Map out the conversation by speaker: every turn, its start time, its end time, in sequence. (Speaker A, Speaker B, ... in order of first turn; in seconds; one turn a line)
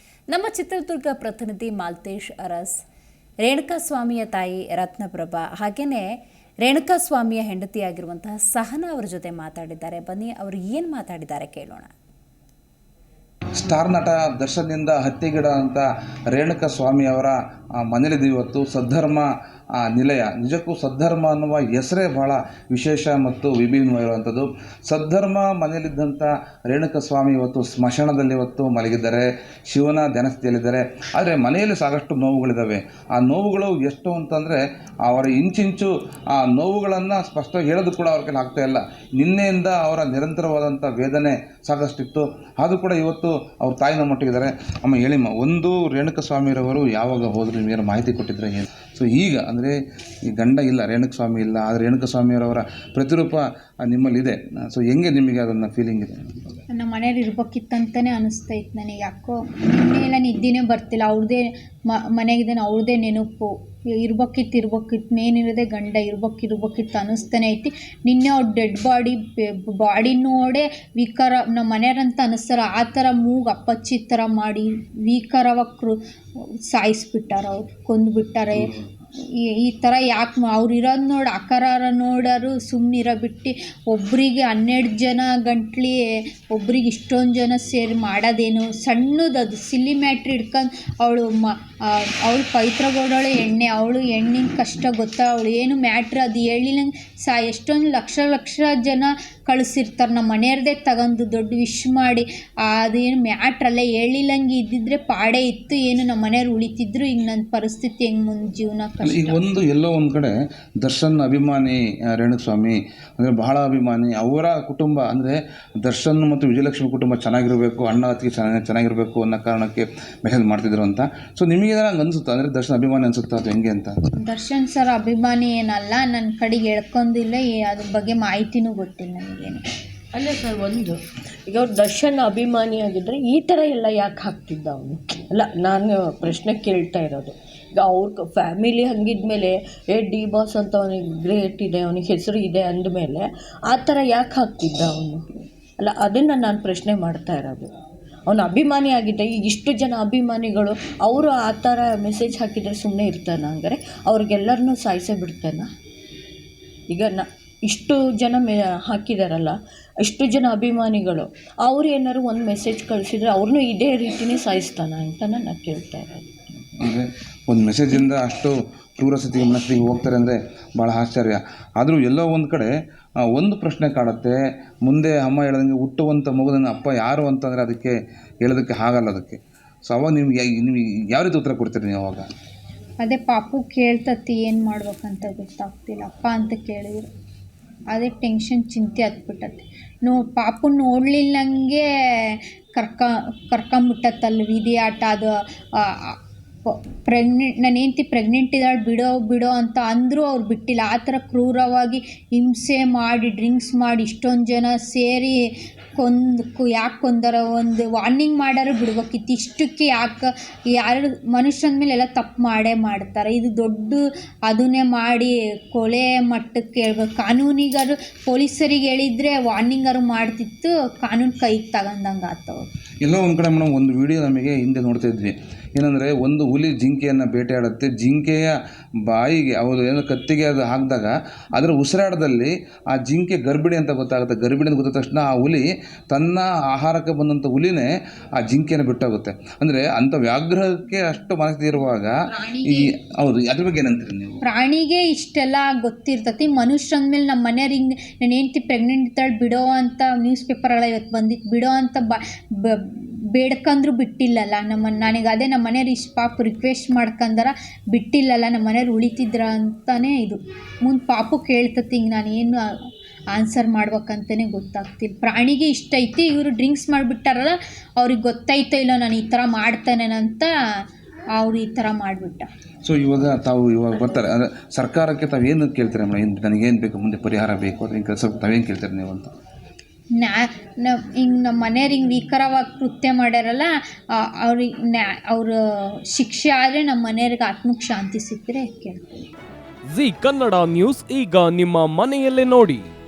Speaker A: 0.3-2.8
Speaker A: 3.4-11.9
Speaker B: 13.6-19.3
Speaker B: 19.8-49.8
Speaker B: 50.3-56.6
Speaker C: 56.7-76.0
Speaker C: 76.7-78.7
Speaker C: 79.4-109.4
Speaker B: 109.0-124.0
Speaker C: 124.2-129.6
Speaker D: 130.1-145.2
Speaker D: 145.8-147.7
Speaker D: 148.3-155.7
Speaker D: 156.9-166.3
Speaker B: 166.8-172.7
Speaker B: 173.3-182.2
Speaker C: 183.0-187.1
Speaker C: 187.9-222.7
Speaker B: 223.0-228.5
Speaker B: 229.1-242.1
Speaker C: 242.2-242.9
Speaker B: 242.6-244.4
Speaker C: 244.4-262.7
Speaker C: 263.3-270.5
Speaker C: 271.3-272.5
Speaker B: 272.8-279.3
Speaker C: 280.1-289.0
Speaker E: 289.9-292.9